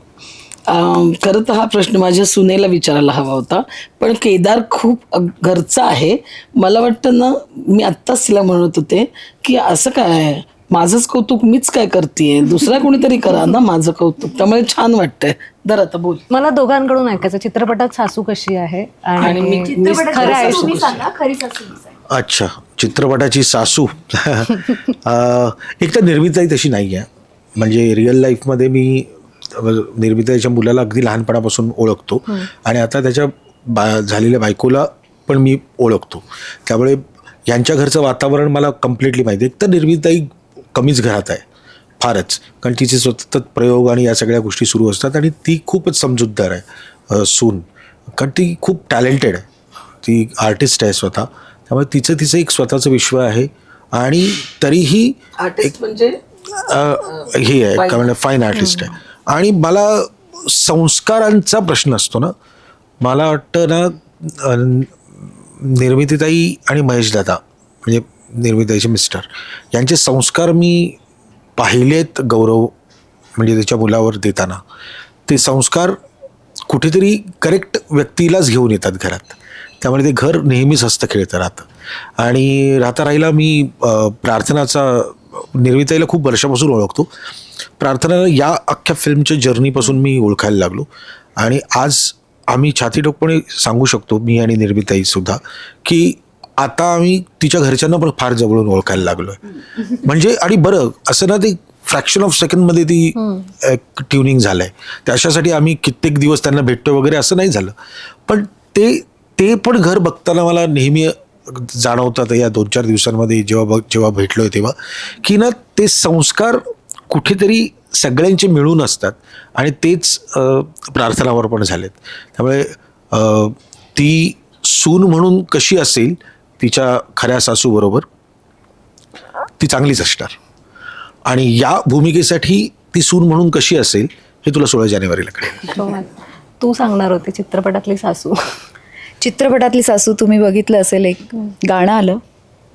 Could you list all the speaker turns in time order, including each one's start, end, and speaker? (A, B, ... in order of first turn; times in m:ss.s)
0:00.7-0:16.2 A
0:16.3-0:20.8 B
0:19.2-0:21.0 A
0:19.2-0:22.0 C
0:22.1-0:41.4 D
0:42.0-0:49.5 D
0:50.0-0:55.7 D
0:55.4-0:56.2 A
0:56.5-1:02.3 D
0:57.1-0:58.1 A
0:58.6-0:58.9 B
1:03.0-1:05.0 D
1:05.6-1:11.0 D
1:11.6-1:12.7 D
1:13.4-1:14.6 D
1:15.3-1:16.0 D
1:16.7-1:27.1 D
1:27.8-1:30.9 D
1:31.4-1:47.7 D
1:43.2-1:43.5 B
1:48.3-2:08.1 D
2:09.6-2:10.4 D
2:11.2-2:15.7 D
2:15.7-2:18.4 B
2:19.2-2:22.2 C